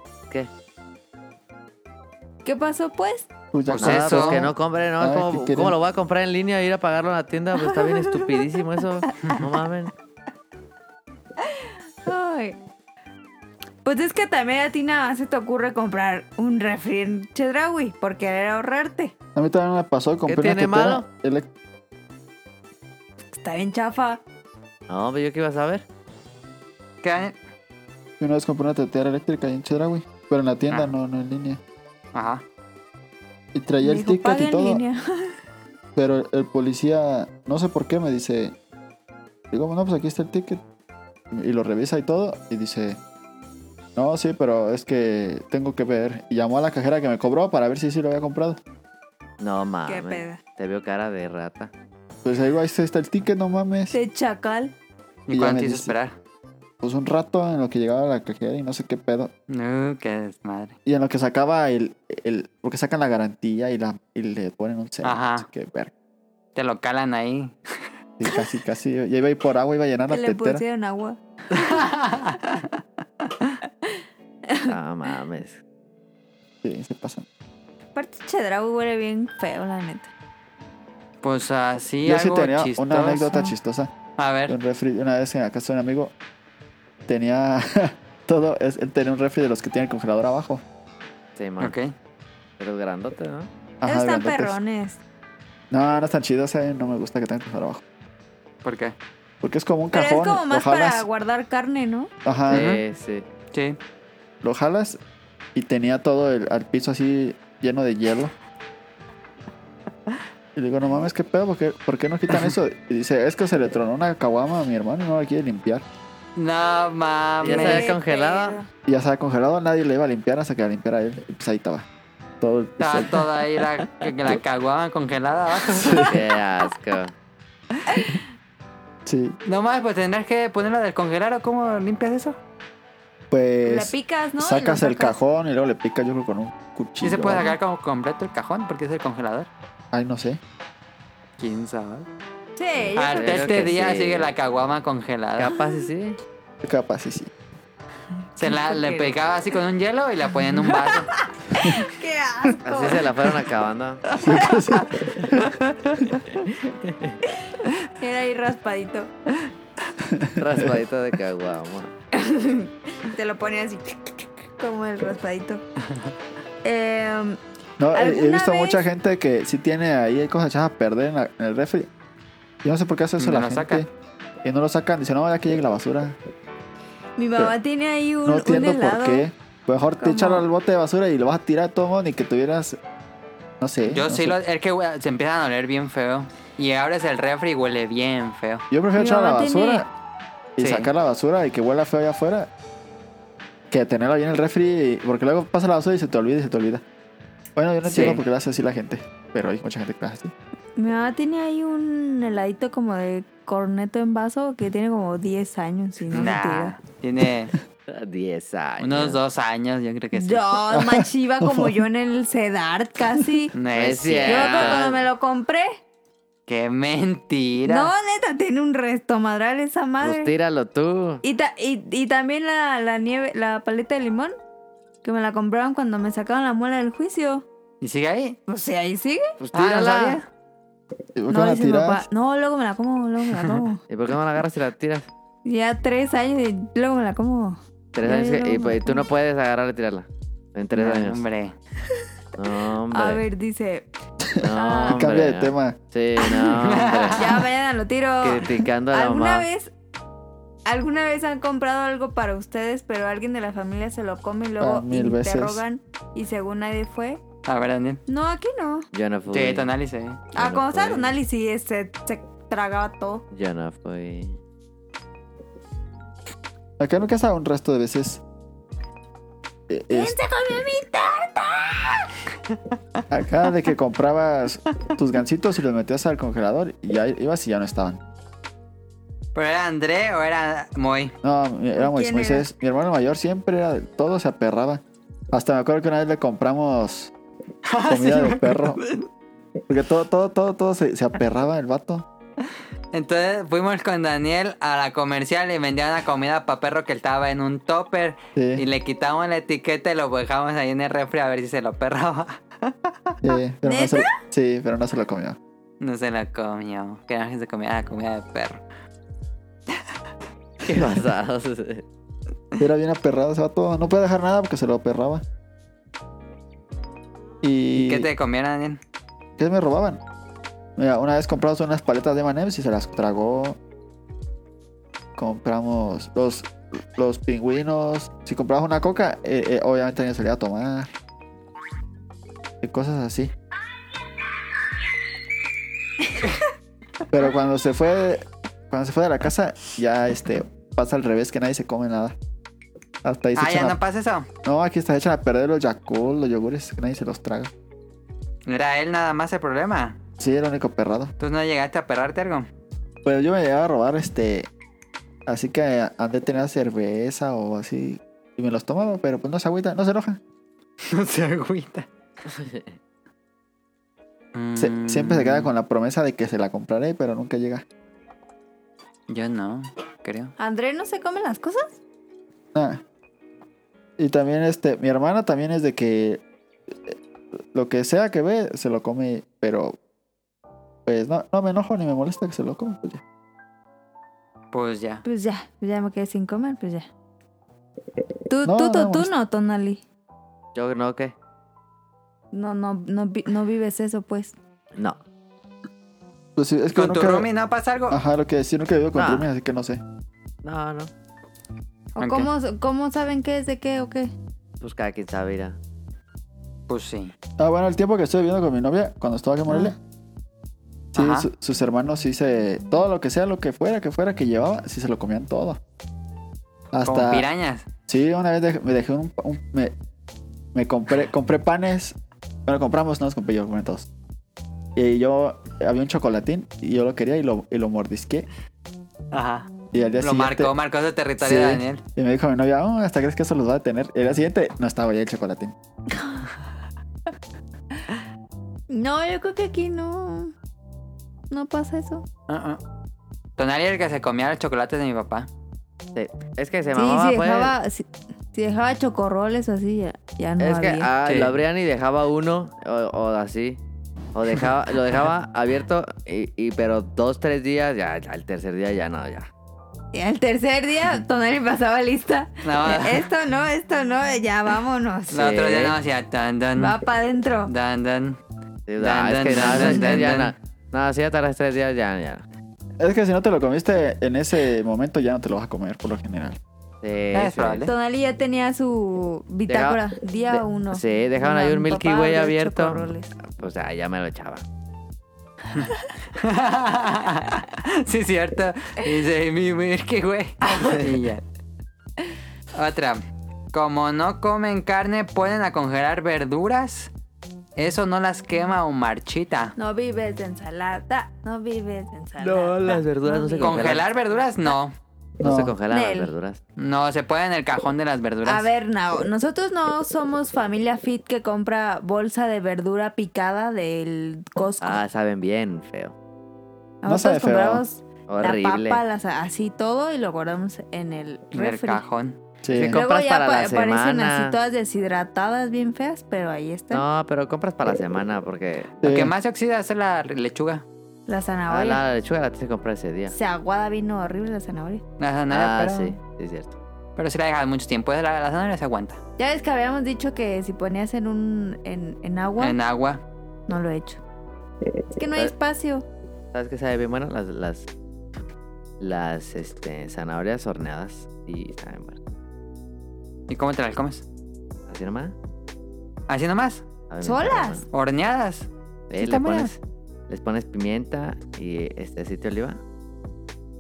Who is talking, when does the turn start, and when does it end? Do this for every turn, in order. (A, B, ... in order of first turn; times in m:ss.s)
0:02.4-0:03.3 A
0:03.5-0:05.8 B
0:03.7-0:04.5 C
0:03.8-0:09.9 D
0:07.7-0:08.2 A
0:11.4-0:12.6 A
0:13.8-0:19.2 A
0:19.4-0:21.5 B
0:20.3-0:21.1 D
0:23.3-0:24.2 A
0:24.9-0:25.8 D
0:27.0-0:27.4 C
0:28.2-0:31.6 B
0:32.1-0:32.4 C
0:33.5-0:34.8 B
0:33.8-0:35.4 A
0:36.0-0:38.6 B
0:39.5-0:40.6 B
0:41.3-0:43.0 B
0:44.0-0:48.6 B
0:49.4-0:51.7 D
0:49.9-0:50.4 A
0:52.2-0:54.0 B
0:53.9-0:54.7 A
0:55.3-0:56.2 C
0:55.3-0:56.0 B
0:56.8-0:59.3 B
0:59.5-1:00.8 C
1:00.8-1:05.9 B
1:05.0-1:05.5 C
1:06.6-1:07.6 C
1:08.2-1:10.6 B
1:10.1-1:11.8 A
1:11.5-1:12.7 C
1:13.8-1:14.8 A
1:14.6-1:15.6 D
1:16.6-1:17.3 B
1:18.0-1:20.1 A
1:21.2-1:23.5 C
1:22.0-1:23.9 B
1:24.2-1:24.6 C
1:24.5-1:26.1 B
1:27.1-1:30.6 B
1:31.4-1:31.8 D
1:31.6-1:31.9 C
1:32.6-1:33.5 D
1:33.8-1:34.6 B
1:33.8-1:35.0 A
1:35.7-1:37.8 B
1:38.6-1:39.0 C
1:39.4-1:41.1 B
1:39.9-1:42.1 A
1:42.2-1:42.7 B
1:42.5-1:43.3 D
1:42.5-1:42.8 C
1:43.5-1:43.8 C
1:44.4-1:45.0 B
1:45.6-1:48.3 B
1:50.6-1:55.8 B
1:56.4-1:57.9 C
1:57.4-1:58.6 D
1:57.4-1:58.7 A
1:58.8-2:01.8 B
2:02.4-2:03.3 B
2:02.8-2:06.1 C
2:05.7-2:06.2 B
2:06.1-2:07.1 D
2:07.9-2:08.2 A
2:09.1-2:09.4 B
2:09.5-2:12.4 C
2:13.3-2:17.6 B
2:13.6-2:15.2 A
2:17.0-2:19.5 C
2:19.9-2:20.4 B
2:21.4-2:22.1 C
2:22.6-2:23.6 A
2:22.8-2:24.3 D
2:23.0-2:25.5 C
2:25.4-2:26.2 D
2:26.6-2:27.3 B
2:28.4-2:31.1 C
2:28.4-2:29.2 A
2:30.5-2:33.3 A
2:32.6-2:34.0 D
2:34.1-2:35.1 A
2:34.2-2:35.5 B
2:36.7-2:37.2 D
2:37.4-2:39.5 A
2:40.0-2:40.8 B
2:40.4-2:41.9 D
2:42.1-2:45.6 A
2:46.6-2:47.4 A
2:47.8-2:51.9 B
2:47.9-2:48.8 A
2:52.6-2:53.9 B
2:53.2-2:53.8 C
2:54.4-2:56.2 B
2:57.2-2:59.3 A
2:58.2-3:02.8 B
3:00.0-3:00.5 A
3:03.6-3:04.4 B
3:03.9-3:08.6 C
3:08.7-3:09.9 B
3:09.0-3:09.8 A
3:10.6-3:12.5 B
3:10.6-3:10.9 C
3:13.7-3:16.8 B
3:17.6-3:20.3 B
3:17.8-3:18.2 C
3:20.8-3:26.8 A
3:26.1-3:27.6 C
3:27.9-3:29.2 D
3:28.8-3:30.4 C
3:30.1-3:33.5 A
3:30.7-3:31.8 B
3:33.5-3:34.9 C
3:33.7-3:35.0 D
3:34.3-3:35.8 A
3:36.5-3:37.9 C
3:37.7-3:40.3 A
3:40.0-3:41.2 D
3:41.2-3:44.4 A
3:45.0-3:47.4 A
3:47.8-3:48.4 C
3:48.5-3:49.3 A
3:49.4-3:50.2 D
3:49.5-3:50.3 C
3:51.2-3:52.1 B
3:51.3-3:53.8 A
3:53.9-3:55.1 D
3:55.4-3:59.1 A
3:58.0-4:01.2 D
4:00.7-4:01.6 C
4:02.4-4:03.2 D
4:02.9-4:03.9 A
4:04.3-4:05.8 B
4:04.4-4:07.5 D
4:04.6-4:05.0 A
4:06.5-4:07.3 C
4:07.2-4:09.7 A
4:08.2-4:09.5 D
4:10.7-4:17.2 A
4:14.6-4:15.6 B
4:17.5-4:18.0 C
4:18.1-4:18.9 A
4:18.9-4:19.7 D
4:19.3-4:20.2 C
4:20.4-4:23.2 A
4:20.4-4:21.2 D
4:23.3-4:24.4 D
4:26.8-4:28.2 B
4:29.7-4:30.2 B
4:29.9-4:32.1 A
4:33.1-4:38.0 B
4:39.4-4:41.1 C
4:41.2-4:47.1 B
4:41.8-4:42.5 A
4:47.7-4:49.0 C
4:47.9-4:48.8 B
4:49.7-4:52.1 B
4:52.9-5:03.2 C
4:58.4-4:58.6 B
5:03.2-5:05.4 B
5:03.6-5:04.2 A
5:05.8-5:08.6 C
5:10.6-5:11.8 D
5:12.6-5:15.2 B
5:17.4-5:18.1 B
5:17.8-5:18.8 C
5:19.4-5:20.0 B
5:20.8-5:23.6 B
5:25.2-5:30.9 B
5:32.6-5:33.3 B
5:37.1-5:42.2 B
5:43.0-5:43.8 B
5:43.4-5:44.3 C
5:44.4-5:47.5 B
5:48.5-5:50.0 C
5:50.2-5:51.1 B
5:51.2-5:52.5 C
5:53.0-5:54.5 B
5:55.3-6:00.2 B
6:00.9-6:01.9 C
6:02.4-6:02.7 D
6:04.3-6:05.5 C
6:04.6-6:07.6 B
6:09.1-6:10.3 C
6:10.4-6:11.8 A
6:12.5-6:12.8 B
6:14.0-6:17.0 B
6:17.5-6:19.8 B
6:20.9-6:23.0 B
6:24.5-6:25.0 C
6:25.0-6:26.9 A
6:28.3-6:29.8 A
6:28.4-6:29.1 B
6:30.6-6:31.1 D
6:32.3-6:34.3 A
6:36.4-6:37.3 B
6:36.7-6:38.0 C
6:37.9-6:39.8 B
6:39.0-6:39.3 D
6:40.4-6:40.9 D
6:42.0-6:44.1 A
6:42.0-6:42.3 C
6:44.6-6:45.6 D
6:46.7-6:47.1 C
6:47.4-6:49.8 B
6:49.5-6:49.8 A
6:50.9-6:55.6 B
6:51.0-6:51.3 C
6:56.7-6:57.3 B
6:56.8-6:57.7 C
6:57.9-6:59.7 B
7:00.5-7:03.9 B
7:04.8-7:08.3 B
7:09.1-7:09.5 C
7:09.7-7:10.5 B
7:10.0-7:11.8 C
7:11.2-7:15.5 B
7:18.7-7:20.3 A
7:21.3-7:22.0 A
7:22.3-7:22.6 C
7:23.4-7:25.3 C
7:26.0-7:27.5 D
7:26.8-7:30.9 A
7:30.4-7:33.6 D
7:31.1-7:31.4 C
7:34.1-7:39.3 D
7:39.9-7:45.6 A
7:42.4-7:43.1 C
7:45.1-7:46.8 C
7:46.6-7:47.5 A
7:47.4-7:48.2 C
7:48.7-7:52.2 D
7:48.8-7:50.4 C
7:49.6-7:50.0 A
7:52.8-7:56.4 B
7:56.8-7:57.7 D
7:57.1-7:57.7 C
7:57.6-8:03.1 A
7:59.5-8:04.4 D
8:05.5-8:11.2 C
8:12.6-8:13.0 C
8:13.5-8:16.9 C
8:17.6-8:19.5 C
8:19.6-8:24.6 A
8:22.2-8:23.9 D
8:23.4-8:24.7 C
8:25.2-8:25.6 B
8:25.2-8:26.4 D
8:25.7-8:26.1 A
8:26.6-8:28.5 C
8:28.3-8:34.8 A
8:34.6-8:35.9 D
8:36.8-8:41.8 A
8:36.8-8:37.6 B
8:38.1-8:38.8 D
8:41.3-8:42.2 C
8:42.4-8:42.8 B
8:42.5-8:44.4 D
8:42.7-8:46.8 A
8:46.7-8:48.8 D
8:48.8-8:49.1 B
8:48.8-8:50.6 C
8:51.1-8:51.8 A
8:51.5-8:53.1 D
8:53.1-8:54.8 A
8:55.0-8:56.0 C
8:55.3-8:56.6 D
8:57.0-8:59.0 C
8:59.2-9:02.6 A
9:02.4-9:03.0 C
9:03.5-9:04.0 A
9:05.0-9:05.8 A
9:06.3-9:07.7 D
9:08.8-9:12.0 D
9:13.3-9:14.0 C
9:14.7-9:15.2 D
9:16.1-9:16.6 C
9:16.9-9:17.6 D
9:17.0-9:17.6 A
9:17.7-9:19.5 C
9:18.9-9:22.6 D